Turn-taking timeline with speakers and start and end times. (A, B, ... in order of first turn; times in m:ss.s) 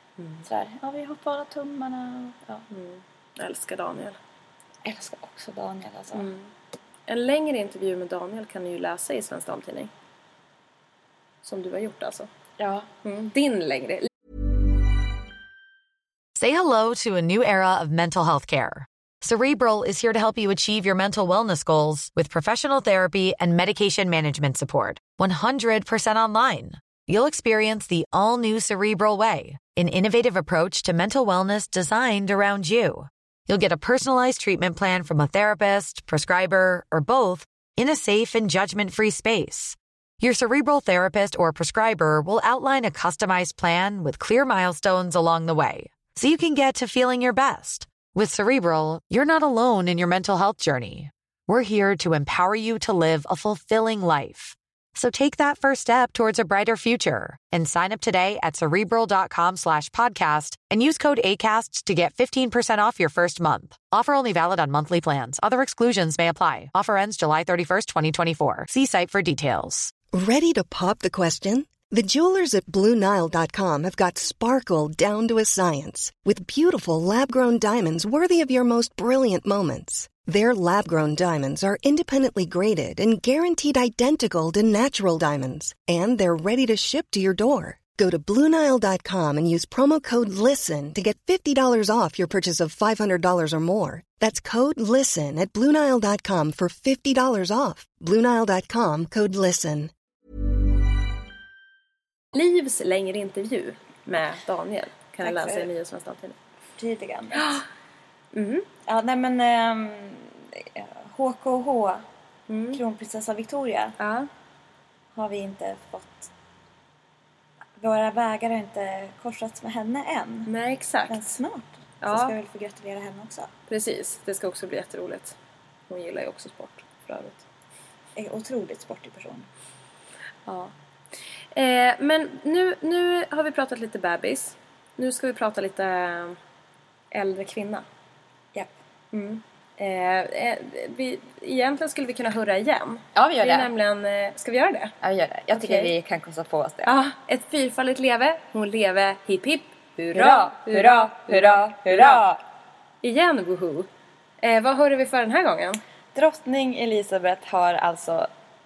0:00.2-0:00.4 A
0:00.4-0:02.6 B
0:02.7-0:04.2 A
0:04.8-0:06.3 B
0:06.1-0:06.5 A
0:07.1-0:09.9 A
0:11.4-0:12.3 A
0:12.6-0:12.9 B
0:13.0-0:14.1 A
0:16.4-1:09.9 C
1:10.1-1:39.9 D
1:42.3-1:46.3 A
1:45.2-1:45.7 B
1:46.8-1:47.6 B
1:48.3-1:48.7 A
1:48.8-1:52.0 B
1:52.5-1:52.8 A
1:52.7-1:54.0 B
1:54.0-1:54.3 A
1:55.1-1:56.3 B
1:57.8-2:00.5 B
2:00.5-2:01.2 A
2:01.1-2:03.5 B
2:02.0-2:02.3 A
2:03.7-2:05.4 A
2:05.9-2:07.4 A
2:08.2-2:09.5 B
2:10.4-2:10.7 A
2:11.5-2:16.4 A
2:17.1-2:17.8 A
2:19.1-2:24.9 A
2:23.1-2:23.7 B
2:25.0-2:26.9 B
2:25.5-2:25.9 A
2:26.8-2:32.2 A
2:30.1-2:32.4 B
2:33.0-2:33.9 A
2:34.4-2:35.8 A
2:36.1-2:38.3 B